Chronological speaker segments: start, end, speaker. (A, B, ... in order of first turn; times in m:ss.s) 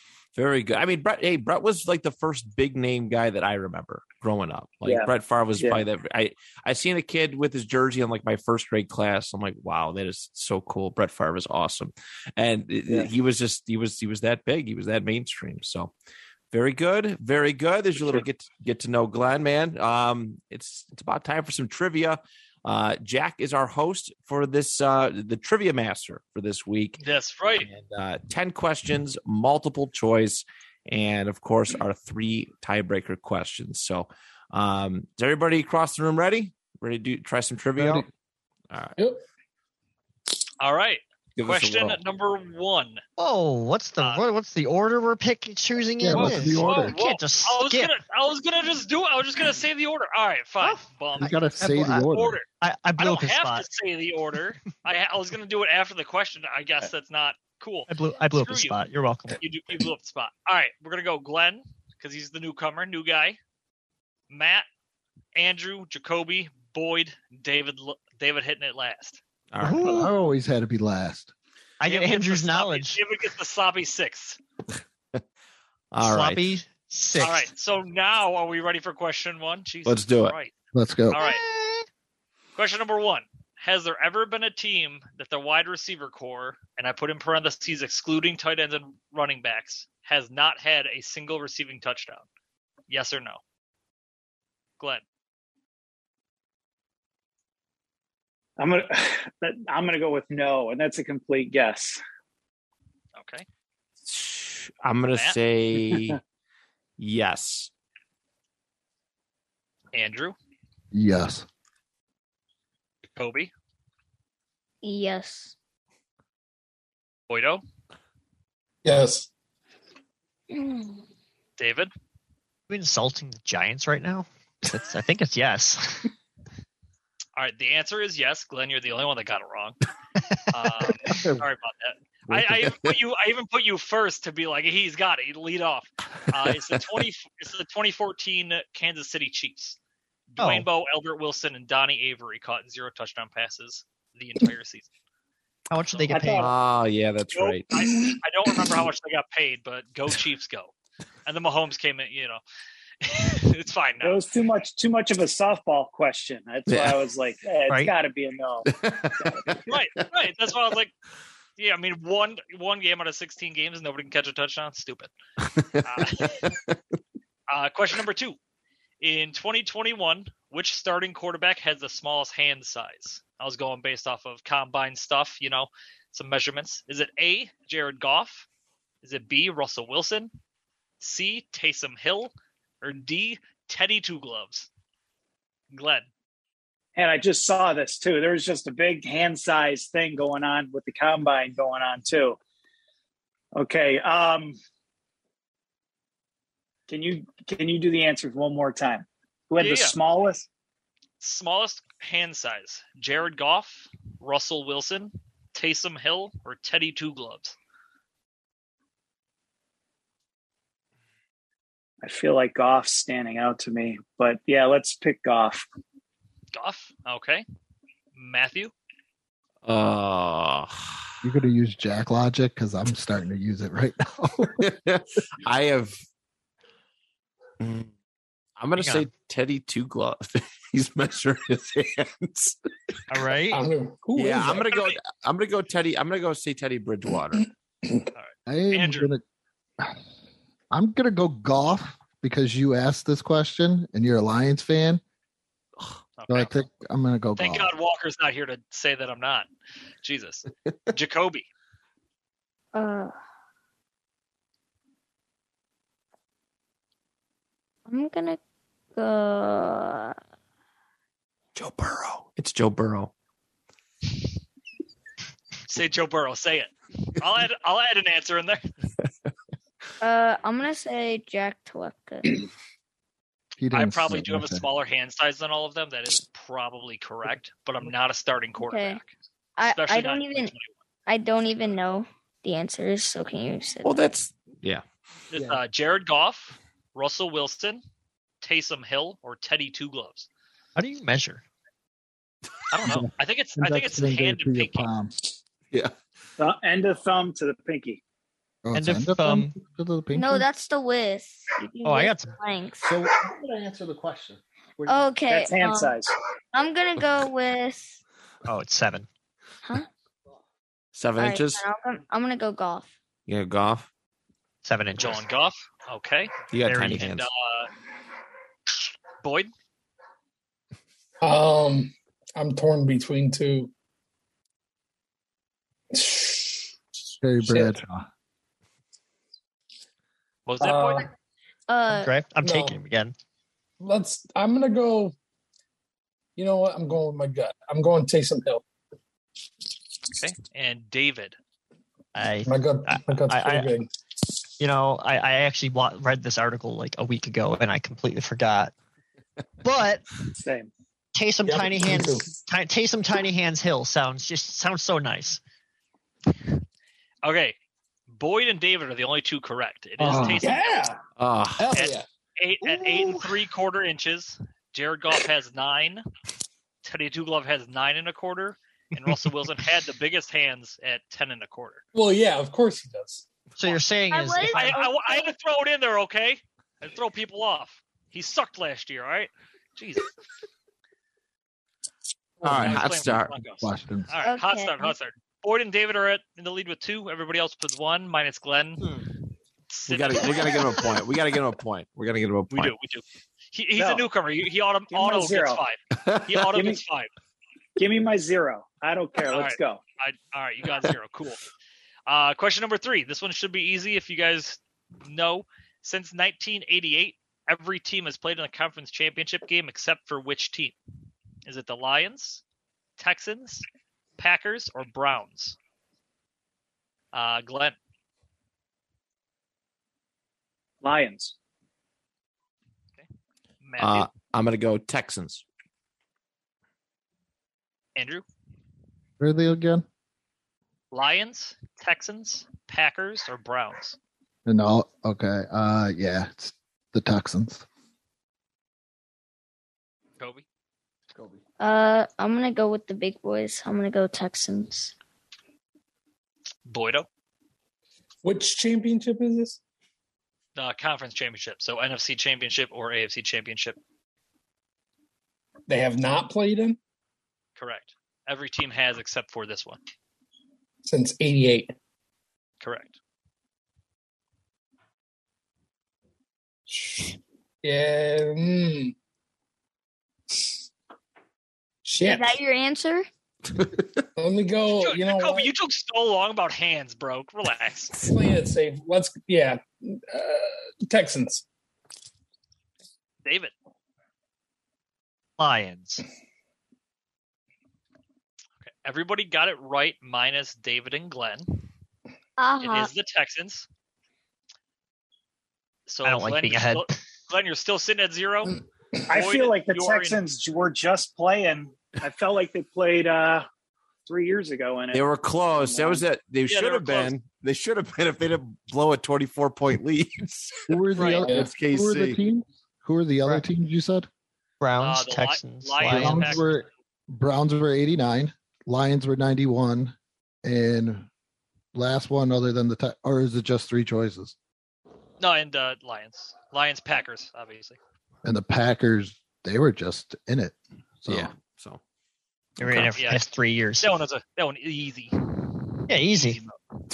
0:00.3-0:15.9 A
0:04.8-0:05.8 B
0:16.5-0:27.0 A
0:18.0-0:18.2 B
0:27.0-0:27.7 C
0:27.6-0:38.1 A
0:37.8-0:38.0 D
0:38.7-0:39.0 A
0:40.6-0:43.0 C
0:41.4-0:42.0 A
0:43.2-0:48.0 E
0:46.0-0:47.0 D
0:46.1-0:51.4 C
0:50.6-0:52.0 E
0:51.2-0:52.4 D
0:52.0-0:52.4 C
0:52.6-0:53.6 E
0:53.0-0:58.8 C
0:57.9-0:59.4 E
0:59.4-1:03.4 C
1:04.3-1:04.7 C
1:05.3-1:09.2 C
1:09.5-1:10.0 A
1:09.6-1:10.1 E
1:09.8-1:11.3 D
1:11.8-1:13.0 E
1:11.8-1:14.4 C
1:15.9-1:16.5 A
1:16.0-1:17.5 E
1:17.2-1:20.5 C
1:19.8-1:20.4 A
1:20.7-1:21.2 D
1:21.1-1:21.4 C
1:21.2-1:21.8 E
1:22.6-1:32.3 C
1:32.9-1:33.4 C
1:38.6-1:42.0 B
1:43.2-1:43.4 C
1:44.0-1:46.2 A
1:45.9-1:46.2 B
1:47.0-1:47.7 A
1:49.9-1:50.3 C
1:50.9-1:51.4 D
1:53.2-1:53.5 C
1:54.8-1:55.5 F
1:57.3-1:57.6 C
1:58.8-1:59.3 G
2:00.5-2:01.0 F
2:01.6-2:01.9 C
2:02.7-2:06.1 E
2:07.4-2:09.8 C
2:10.5-2:19.8 C
2:12.3-2:12.7 A
2:20.3-2:24.9 C
2:20.4-2:20.7 E
2:25.7-2:26.6 E
2:25.9-2:26.2 C
2:26.1-2:26.4 G
2:26.4-2:27.8 A
2:27.3-2:30.7 C
2:31.2-2:32.4 C
2:33.0-2:34.2 C
2:34.0-2:38.7 B
2:36.7-2:37.0 A
2:38.7-2:40.0 A
2:39.7-2:40.9 C
2:41.6-2:45.1 C
2:45.4-2:46.8 A
2:45.8-2:46.4 C
2:47.5-2:48.4 C
2:49.0-2:58.4 C
2:59.0-3:00.3 C
3:01.0-3:04.7 C
3:05.7-3:06.1 C
3:07.0-3:12.4 B
3:13.6-3:14.6 B
3:16.9-3:20.5 B
3:19.6-3:20.0 C
3:21.2-3:27.6 C
3:32.0-3:35.6 B
3:36.5-3:37.4 C
3:38.2-3:38.7 C
3:39.6-3:40.8 A
3:41.2-3:44.7 D
3:44.6-3:46.0 A
3:47.6-3:47.9 A
3:48.6-3:52.6 A
3:48.8-3:49.1 E
3:53.1-3:53.6 E
3:53.5-3:54.7 G
3:54.2-3:57.4 A
3:58.1-3:59.1 C
3:58.5-3:59.2 D
4:00.7-4:05.0 D
4:06.2-4:06.5 C
4:06.3-4:07.7 D
4:07.4-4:09.5 C
4:10.0-4:11.5 C
4:12.7-4:13.1 F
4:17.9-4:18.4 F
4:18.9-4:20.2 F
4:21.5-4:23.1 A
4:25.7-4:28.6 C
4:30.0-4:32.4 F
4:33.6-4:34.6 D
4:33.7-4:39.1 C
4:38.6-4:39.0 F
4:39.6-4:40.5 F
4:39.6-4:40.7 C
4:41.1-4:44.0 F
4:43.8-4:44.8 A
4:45.3-4:47.8 C
4:48.4-4:50.3 C
4:50.8-4:51.4 E
4:52.7-4:54.9 C
4:52.8-4:55.1 D
4:56.4-4:58.0 B
4:58.6-5:00.4 D
4:58.7-4:59.5 E
5:00.1-5:02.9 F
5:01.8-5:02.4 E
5:02.8-5:05.1 D
5:04.8-5:06.0 F
5:05.3-5:06.1 B
5:06.5-5:08.0 F
5:08.4-5:09.1 E
5:10.9-5:11.6 A
5:11.2-5:12.9 F
5:13.3-5:13.9 A
5:14.6-5:15.2 E
5:15.0-5:16.4 C
5:16.5-5:17.3 A
5:16.6-5:17.1 E
5:17.0-5:17.7 C
5:19.2-5:19.5 C
5:21.2-5:23.7 G
5:25.9-5:26.7 G
5:27.2-5:28.0 D
5:27.4-5:27.8 G
5:30.4-5:31.1 C
5:30.6-5:31.1 G
5:31.7-5:32.1 F
5:31.9-5:33.1 E
5:32.4-5:32.8 G
5:33.8-5:35.1 G
5:36.4-5:38.6 G
5:40.1-5:41.4 C
5:42.1-5:43.7 E
5:42.4-5:43.9 G
5:44.6-5:48.7 E
5:49.6-5:50.0 E
5:50.4-5:50.7 B
5:51.1-5:55.4 E
5:51.4-5:52.3 G
5:57.2-5:57.6 C
5:58.1-6:00.9 C
6:00.0-6:01.0 G
6:01.2-6:01.7 A
6:01.6-6:02.0 G
6:01.7-6:06.0 C
6:06.8-6:11.8 C
6:11.9-6:13.2 G
6:13.6-6:14.8 E
6:14.1-6:15.3 F
6:14.5-6:20.1 C
6:22.4-6:29.0 C
6:22.4-6:23.4 A
6:22.4-6:22.8 D
6:23.6-6:24.1 D
6:24.2-6:24.9 F
6:29.7-6:30.8 C
6:29.9-6:32.7 A
6:32.5-6:37.1 C
6:33.8-6:34.1 B
6:34.9-6:35.6 B
6:36.0-6:36.4 A
6:36.5-6:36.8 B
6:37.8-6:39.8 B
6:39.3-6:41.4 C
6:42.1-6:50.8 C
6:51.4-6:52.4 C
6:53.0-6:53.6 C
6:54.2-6:55.6 C
6:57.1-6:57.8 C
7:00.8-7:01.3 B
7:03.6-7:04.1 C
7:03.8-7:05.4 A
7:08.0-7:08.2 C
7:09.2-7:09.8 D
7:10.9-7:14.0 C
7:14.4-7:17.6 D
7:20.2-7:20.4 C
7:21.6-7:24.9 F
7:26.7-7:27.1 C
7:28.2-7:29.6 G
7:30.6-7:33.8 C
7:35.7-7:36.8 G
7:37.6-7:39.8 C
7:40.8-7:41.7 G
7:42.6-7:43.0 C
7:46.7-7:48.9 G
7:51.8-7:52.3 G
7:52.0-7:53.1 F
7:53.6-7:54.0 A
7:54.2-7:55.5 G
7:54.8-7:57.9 C
7:58.0-8:01.4 G
8:03.2-8:03.5 C
8:05.4-8:06.0 E
8:08.6-8:11.6 C
8:12.4-8:12.9 F
8:12.6-8:13.7 C
8:15.9-8:20.2 C
8:16.0-8:17.0 E
8:19.1-8:23.5 B
8:24.0-8:26.0 B
8:24.9-8:32.2 A
8:26.5-8:27.1 C
8:30.7-8:34.1 D
8:31.0-8:31.2 C
8:31.2-8:31.5 G
8:34.6-8:36.4 E
8:34.8-8:36.5 C
8:35.8-8:41.1 D
8:41.7-8:44.3 D
8:45.2-8:47.8 C
8:48.2-8:51.3 D
8:51.1-8:51.8 A
8:52.6-8:53.9 E
8:52.6-8:52.9 A
8:53.8-8:56.6 C
8:55.9-8:56.4 E